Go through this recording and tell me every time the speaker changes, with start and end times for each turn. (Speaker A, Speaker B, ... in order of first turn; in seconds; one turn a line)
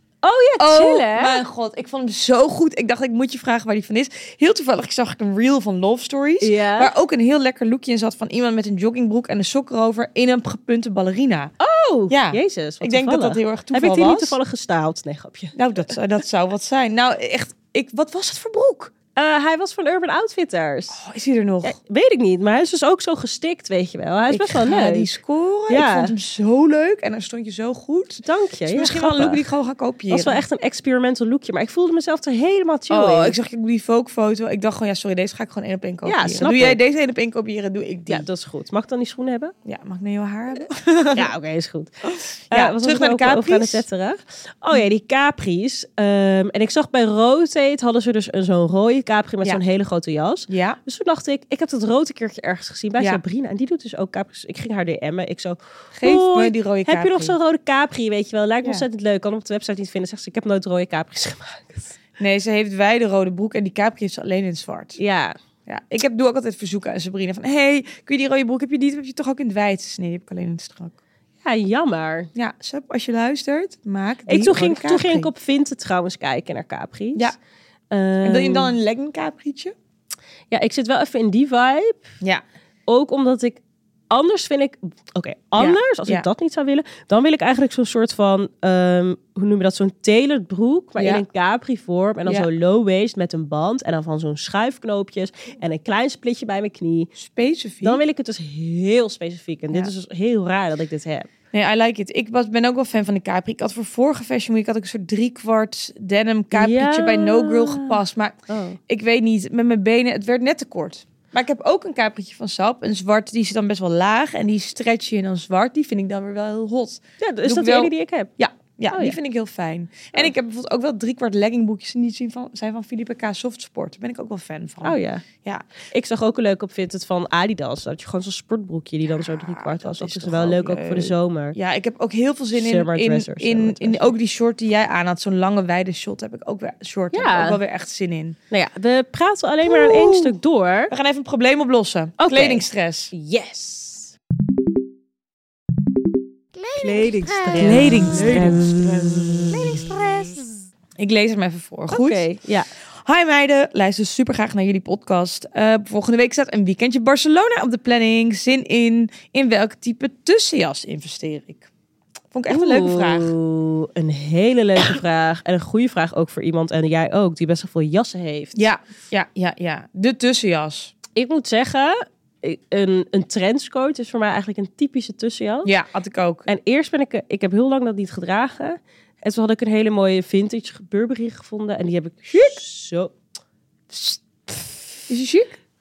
Speaker A: 0.2-1.4
Speaker B: 0.6-11.5
Speaker A: 6.4-6.9
Speaker A: 11.6-15.6
Speaker B: 12.1-14.4
Speaker B: 15.6-18.9
Speaker A: 19.1-21.0
Speaker B: 20.9-21.8
Speaker A: 21.6-25.1
Speaker B: 24.3-30.4
Speaker A: 25.7-26.1
Speaker A: 28.2-29.4
Speaker A: 30.1-33.4
Speaker B: 32.9-38.3
Speaker A: 36.0-36.8
Speaker A: 38.1-39.5
Speaker B: 39.6-41.3
Speaker A: 41.1-41.9
Speaker B: 42.0-43.9
Speaker A: 42.5-62.0
Speaker B: 50.5-50.8
Speaker B: 55.9-57.4
Speaker B: 62.2-65.0
Speaker A: 65.0-65.3
Speaker B: 65.7-71.0
Speaker A: 71.4-72.3
Speaker B: 72.3-75.3
Speaker A: 74.3-77.3
Speaker A: 77.9-78.7
Speaker B: 78.2-79.7
Speaker A: 80.5-82.1
Speaker A: 82.9-97.1
Speaker B: 85.6-86.3
Speaker B: 91.0-91.2
Speaker B: 97.2-98.0
Speaker A: 97.8-101.3
Speaker B: 101.5-125.6
Speaker A: 106.5-108.8
Speaker A: 117.2-118.3
Speaker A: 118.9-119.2
Speaker A: 124.8-125.2
Speaker A: 125.9-131.6
Speaker B: 129.1-138.4
Speaker A: 132.6-134.2
Speaker A: 137.1-137.6
Speaker A: 138.5-140.9
Speaker B: 139.6-140.4
Speaker B: 140.9-143.1
Speaker A: 142.2-144.1
Speaker A: 146.7-148.7
Speaker B: 147.5-149.9
Speaker A: 149.5-150.5
Speaker B: 151.0-152.3
Speaker A: 151.9-152.7
Speaker B: 153.0-161.7
Speaker B: 162.3-163.3
Speaker A: 162.5-168.6
Speaker B: 168.6-170.9
Speaker A: 171.2-175.7
Speaker B: 175.7-176.5
Speaker A: 176.5-183.2
Speaker B: 182.3-182.6
Speaker B: 183.9-184.5
Speaker B: 185.1-185.6